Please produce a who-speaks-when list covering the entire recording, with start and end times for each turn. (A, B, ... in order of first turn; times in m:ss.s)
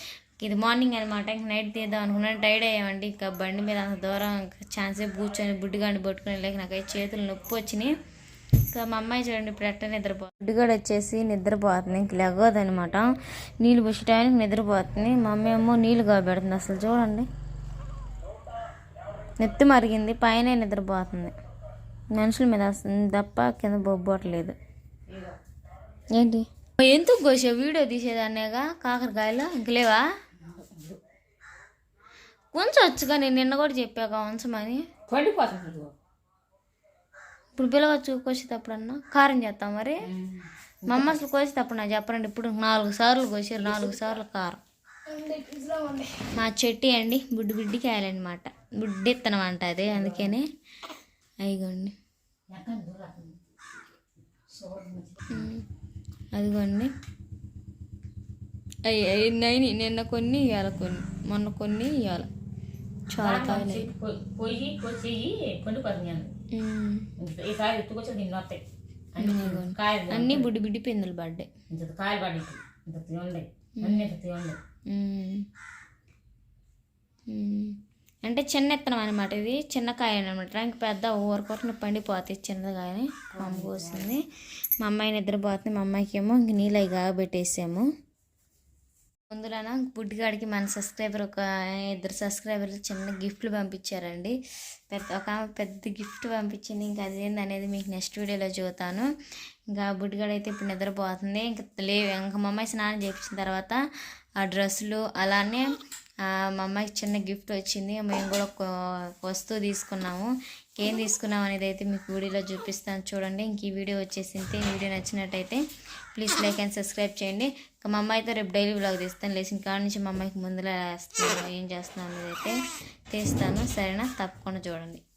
0:00.4-0:07.9 A
0:08.7-0:17.3 A
0:19.4-0:21.3 A
0:22.1-0:24.5 A
0:25.1-0:25.4 B
0:26.1-0:30.0 A
0:30.4-0:31.0 B
0:32.5-0:34.8 A
0:35.1-0:35.9 B
0:37.6-0:40.1 A
0:40.0-0:41.2 B
0:40.9-0:44.6 A
0:43.6-0:44.2 B
0:45.2-0:46.1 B
0:46.2-0:50.4 A
0:49.9-0:50.4 B
0:51.4-0:51.9 A
0:52.5-0:53.4 B
0:54.5-0:55.5 B
0:55.3-0:55.6 A
0:56.4-0:56.9 A
0:58.8-1:02.3 A
1:03.1-1:03.9 A
1:03.2-1:06.3 B
1:06.5-1:07.1 A
1:07.2-1:10.5 B
1:09.2-1:11.5 A
1:11.7-1:14.6 B
1:13.8-1:14.1 A
1:14.9-1:15.4 A
1:17.3-1:24.2 A
1:23.3-1:24.2 B
1:24.8-1:27.8 A
1:29.3-1:34.3 A
1:34.9-1:39.1 A
1:39.7-1:43.8 A
1:44.4-1:45.7 A
1:46.6-1:48.6 A
1:49.2-1:55.6 A
1:56.1-2:02.6 A
2:03.1-2:05.0 A